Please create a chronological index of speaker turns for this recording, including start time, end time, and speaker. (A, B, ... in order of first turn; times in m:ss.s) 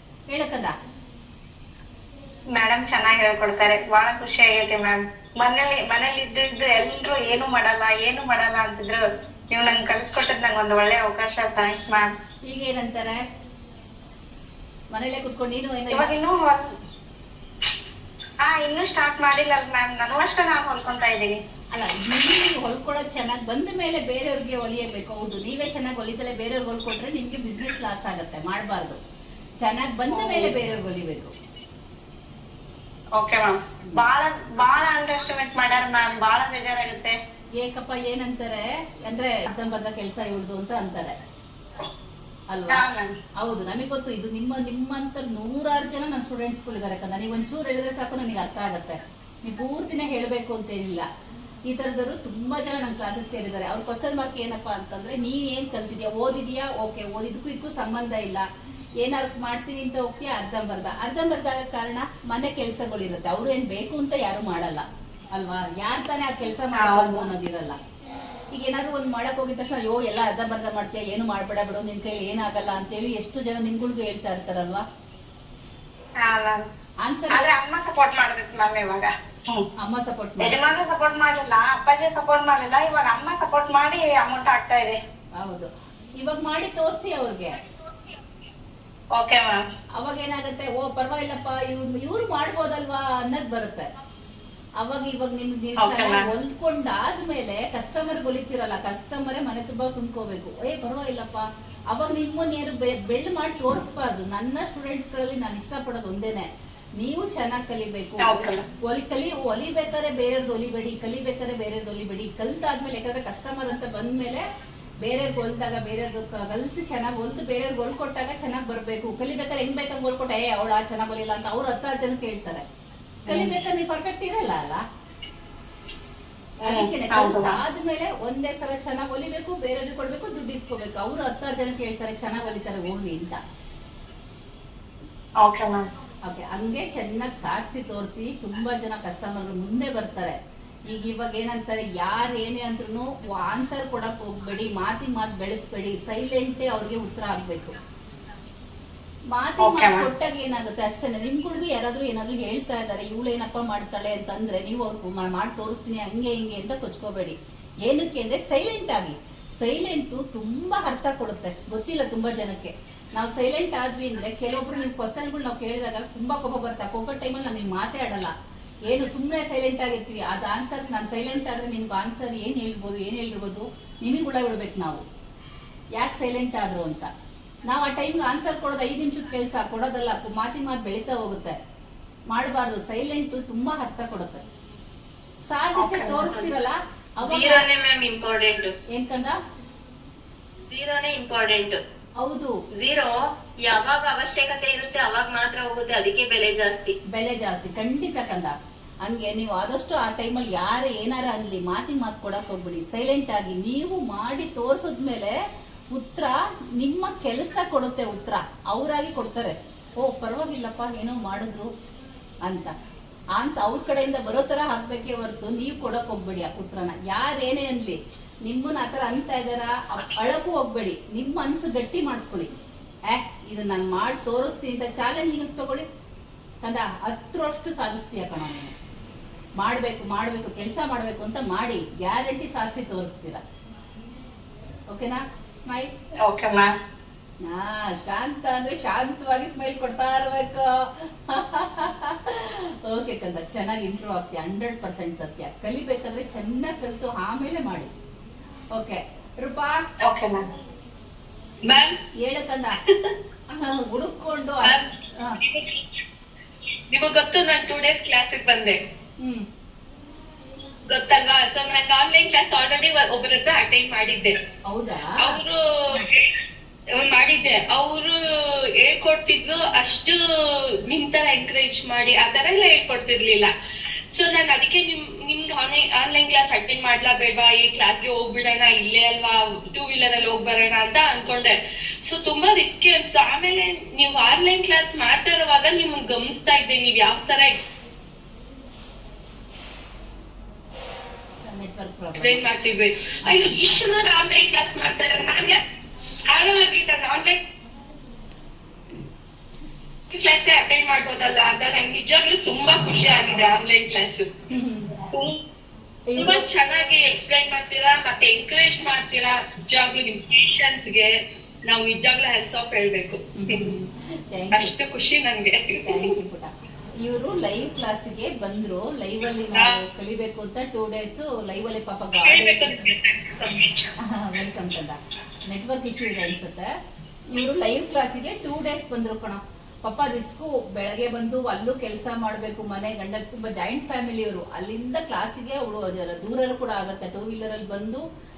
0:00.3-0:00.7 A
0:02.5-0:12.1 B
0:12.4-0:13.2 A
0:14.9-0:16.1 A
0:15.9-0:16.6 B
0:18.4-0:21.4 B
0:21.7-0:29.0 A
0:29.6-0:31.3 A
0:30.1-0:30.5 B
0:33.2-0:37.2 B
0:37.6-0:41.1 A
0:42.5-0:42.8 A
0:42.7-0:43.1 B
0:43.4-0:51.0 A
0:51.6-0:58.5 A
0:59.0-1:07.8 A
1:06.7-1:07.3 B
1:08.5-1:14.8 A
1:16.2-1:16.6 B
1:17.0-1:17.5 A
1:17.3-1:19.7 B
1:19.8-1:20.6 A
1:20.4-1:25.0 B
1:25.4-1:27.6 A
1:29.1-1:29.6 B
1:30.0-1:33.9 A
1:34.8-1:46.4 A
1:35.8-1:36.3 B
1:47.0-1:54.5 A
1:48.2-1:48.6 B
1:55.0-2:02.6 A
2:03.3-2:04.8 A
2:03.3-2:03.5 B
2:06.6-2:07.6 B
2:06.6-2:13.4 A
2:15.4-2:15.9 B
2:16.2-2:20.4 A
2:20.9-2:27.8 A
2:29.3-2:48.3 A
2:29.6-2:30.1 B
2:48.8-2:55.0 A
2:56.0-2:57.1 A
2:57.6-3:01.6 A
3:02.3-3:04.4 A
3:05.5-3:07.7 A
3:05.8-3:06.5 C
3:07.2-3:08.7 C
3:08.9-3:09.4 A
3:10.7-3:11.8 C
3:12.2-3:12.5 A
3:12.7-3:16.9 C
3:17.1-3:25.3 A
3:25.9-3:31.7 A
3:32.4-3:32.7 A
3:33.3-3:42.5 A
3:43.1-3:45.8 A
3:46.6-3:48.7 A
3:49.6-3:53.4 A
3:54.9-3:55.9 A
3:56.2-3:56.7 B
3:57.4-4:07.9 A
4:08.7-4:09.8 A
4:10.0-4:10.4 B
4:11.6-4:12.0 D
4:12.2-4:12.8 A
4:13.5-4:15.4 A
4:15.4-4:15.8 D
4:16.9-4:18.8 D
4:19.2-4:19.4 A
4:20.9-4:24.4 D
4:24.6-4:25.4 A
4:25.2-4:26.3 D
4:26.9-4:30.2 D
4:30.8-4:33.5 D
4:34.1-4:47.7 D
4:51.4-4:52.4 A
4:52.2-4:55.6 D
4:56.3-4:57.4 D
5:00.1-5:04.3 D
5:04.5-5:05.0 A
5:05.1-5:05.4 D
5:06.1-5:06.4 A
5:06.2-5:13.7 D
5:13.3-5:14.7 A
5:14.5-5:16.1 D
5:15.7-5:16.5 A
5:17.0-5:22.9 A
5:22.2-5:23.9 D
5:24.0-5:26.7 A
5:27.3-5:38.0 A